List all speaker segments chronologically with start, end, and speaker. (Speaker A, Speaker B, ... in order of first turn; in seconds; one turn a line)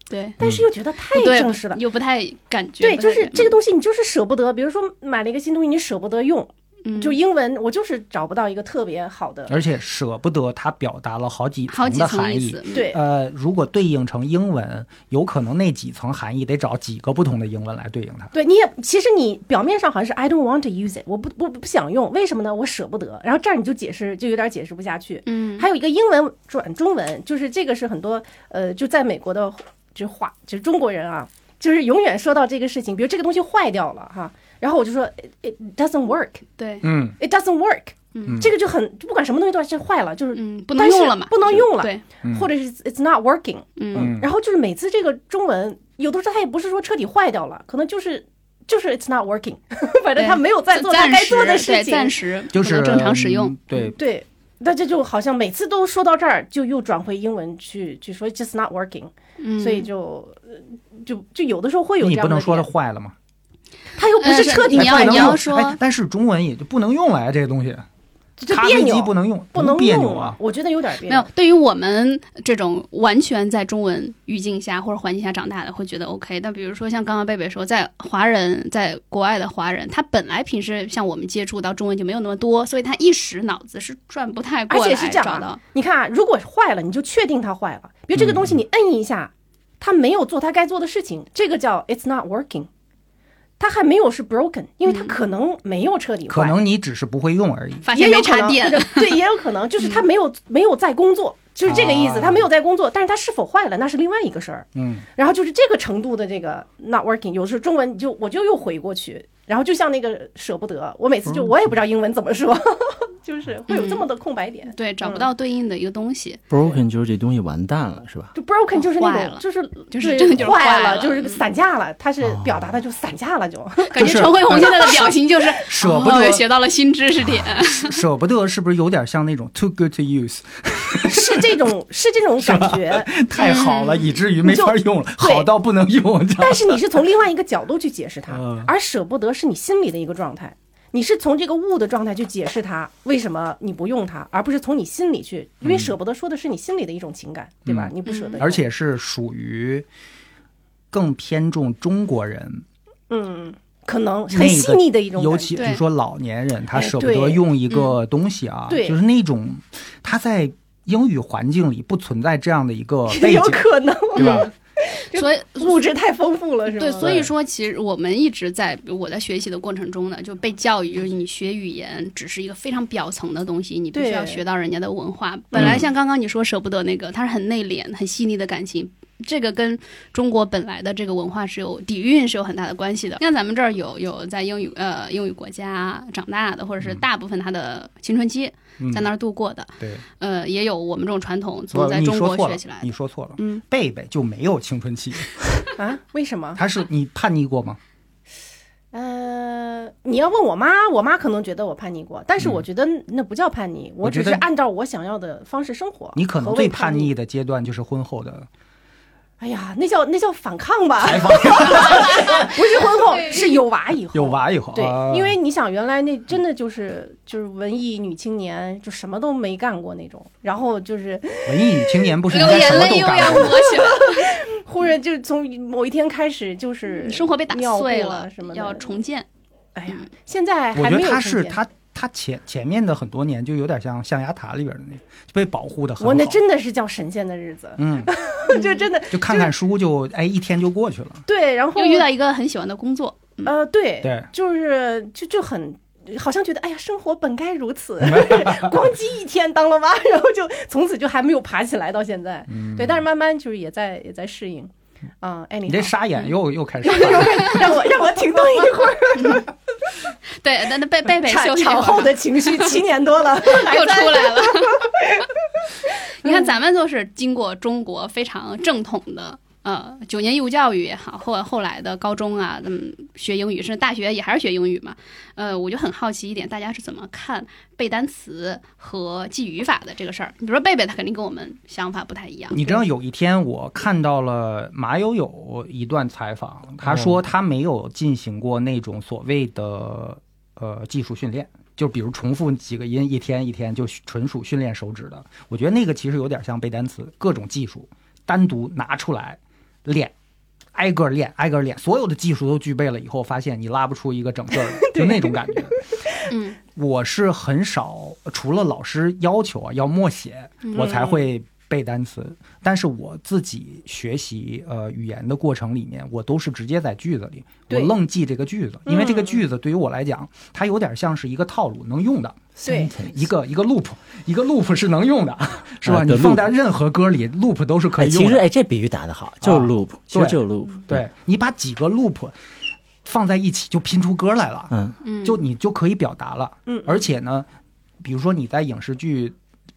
Speaker A: 0.1-0.4
Speaker B: 0.4-1.8
Speaker A: 1.1-3.6
Speaker B: 2.8-9.6
Speaker A: 6.8-7.2
Speaker C: 9.5-18.3
Speaker A: 11.7-12.9
Speaker B: 12.7-13.0
Speaker B: 18.3-36.5
Speaker A: 25.3-25.7
Speaker A: 36.6-36.9
Speaker C: 36.8-37.2
Speaker B: 37.2-52.2
Speaker A: 38.1-38.4
Speaker A: 40.3-42.0
Speaker C: 42.2-42.5
Speaker A: 43.8-44.1
Speaker C: 44.0-44.3
Speaker A: 50.2-53.9
Speaker C: 52.5-54.0
Speaker B: 54.0-62.7
Speaker A: 59.4-59.9
Speaker C: 62.0-63.1
Speaker B: 64.0-65.4
Speaker A: 64.2-65.8
Speaker C: 64.7-67.9
Speaker B: 68.4-71.3
Speaker C: 68.5-70.4
Speaker A: 71.1-85.6
Speaker B: 84.7-92.7
Speaker C: 88.2-88.5
Speaker B: 93.6-96.6
Speaker A: 94.9-95.2
Speaker C: 96.3-97.9
Speaker A: 97.8-99.2
Speaker B: 97.9-115.3
Speaker C: 101.7-102.5
Speaker C: 104.8-105.0
Speaker A: 113.7-114.1
Speaker A: 114.7-116.4
Speaker D: 116.5-118.3
Speaker B: 118.3-125.1
Speaker A: 118.8-121.4
Speaker D: 122.2-122.7
Speaker A: 123.9-128.0
Speaker C: 124.0-126.4
Speaker C: 127.8-131.6
Speaker B: 131.1-133.3
Speaker C: 132.4-136.8
Speaker A: 133.4-134.2
Speaker B: 134.4-135.5
Speaker B: 136.4-148.7
Speaker C: 138.3-138.7
Speaker C: 145.6-145.9
Speaker C: 147.7-149.9
Speaker A: 148.1-148.4
Speaker C: 150.9-152.7
Speaker B: 153.1-155.7
Speaker C: 154.3-164.5
Speaker A: 155.6-155.8
Speaker B: 156.7-157.4
Speaker A: 157.7-158.0
Speaker B: 158.7-159.0
Speaker B: 163.1-167.3
Speaker A: 164.2-164.5
Speaker A: 165.1-165.8
Speaker A: 166.7-193.6
Speaker B: 173.9-174.4
Speaker C: 175.6-175.8
Speaker C: 188.8-189.1
Speaker C: 191.7-195.7
Speaker B: 195.8-196.6
Speaker C: 196.6-197.8
Speaker B: 198.9-207.1
Speaker C: 202.4-202.6
Speaker C: 204.0-204.4
Speaker C: 206.2-208.5
Speaker B: 209.4-222.5
Speaker C: 211.0-212.5
Speaker A: 211.9-212.5
Speaker C: 214.1-215.4
Speaker C: 221.5-223.6
Speaker A: 222.3-224.3
Speaker B: 223.2-228.9
Speaker A: 227.0-229.3
Speaker B: 229.8-231.6
Speaker C: 230.7-236.4
Speaker B: 236.0-239.5
Speaker C: 237.8-238.1
Speaker A: 238.5-238.9
Speaker C: 239.1-241.2
Speaker B: 241.3-242.1
Speaker A: 241.8-243.5
Speaker B: 243.4-255.9
Speaker C: 248.0-248.8
Speaker C: 252.5-253.0
Speaker C: 255.7-257.8
Speaker B: 256.8-259.5
Speaker A: 259.2-259.4
Speaker A: 260.4-262.7
Speaker B: 261.2-265.3
Speaker A: 263.4-264.9
Speaker A: 265.9-282.7
Speaker C: 282.5-300.1
Speaker C: 300.8-305.8
Speaker B: 304.7-306.2
Speaker A: 306.3-306.6
Speaker C: 306.8-328.4
Speaker A: 310.6-310.9
Speaker B: 310.8-311.3
Speaker B: 317.7-317.9
Speaker B: 318.9-319.4
Speaker D: 322.6-323.3
Speaker B: 322.6-322.9
Speaker D: 325.8-326.5
Speaker D: 328.0-331.0
Speaker C: 329.4-332.3
Speaker C: 333.0-337.5
Speaker A: 335.0-335.4
Speaker B: 336.7-337.0
Speaker C: 338.0-339.3